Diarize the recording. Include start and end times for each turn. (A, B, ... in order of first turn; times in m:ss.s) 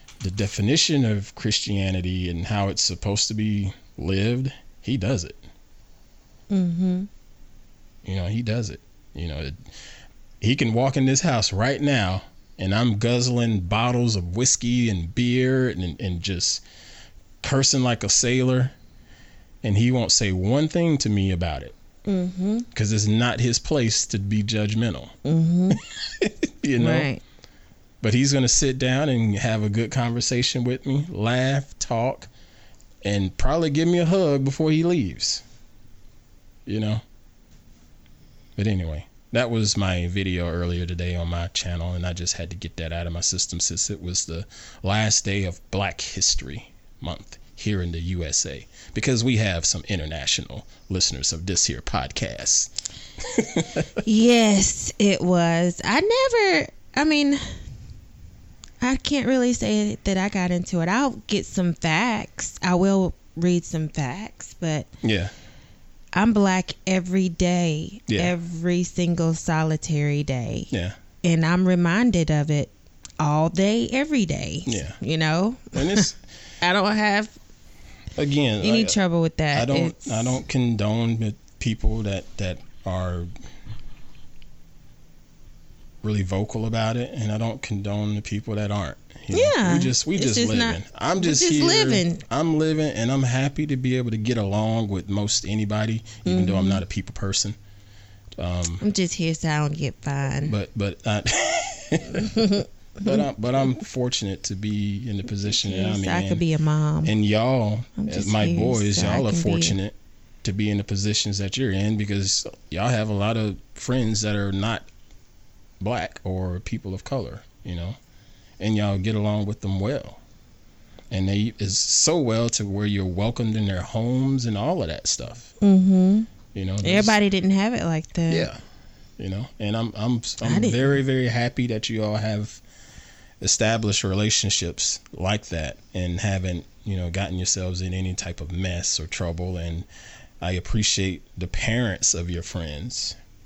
0:00.2-0:05.4 A
0:06.5-0:07.1 B
0:08.0-0:09.6 A
0:10.4-0:16.6 A
0:17.4-0:18.7 A
0:19.6-0:21.8 A
0:22.1-0:22.7 B
0:22.7-0:25.2 A
0:25.2-0:25.8 B
0:25.7-0:27.1 A
0:26.8-0:27.2 B
0:28.0-0:32.3 A
0:33.0-0:35.4 A
0:36.7-0:37.0 A
0:38.6-0:52.7 A
0:53.2-0:53.9 A
0:54.0-0:57.5 B
0:58.8-1:04.9 B
1:05.0-1:05.3 A
1:06.1-1:10.7 B
1:10.7-1:11.0 A
1:11.2-1:16.1 B
1:14.7-1:15.0 A
1:15.7-1:16.2 A
1:16.6-1:17.3 B
1:18.2-1:19.0 A
1:18.6-1:20.4 B
1:19.5-1:23.3 A
1:26.0-1:37.6 A
1:29.3-1:32.2 B
1:36.3-1:36.8 B
1:38.4-1:38.8 A
1:38.8-1:40.6 B
1:40.4-1:46.4 A
1:42.2-1:43.2 B
1:45.5-1:47.1 B
1:47.0-1:54.9 A
1:48.0-1:49.8 B
1:55.8-1:58.0 A
1:58.6-2:00.2 A
2:01.1-2:05.5 A
2:05.6-2:06.3 B
2:06.5-2:07.2 A
2:06.8-2:08.5 B
2:08.3-2:08.6 A
2:09.2-2:12.6 A
2:10.4-2:11.0 B
2:13.4-2:19.9 A
2:20.4-2:23.2 A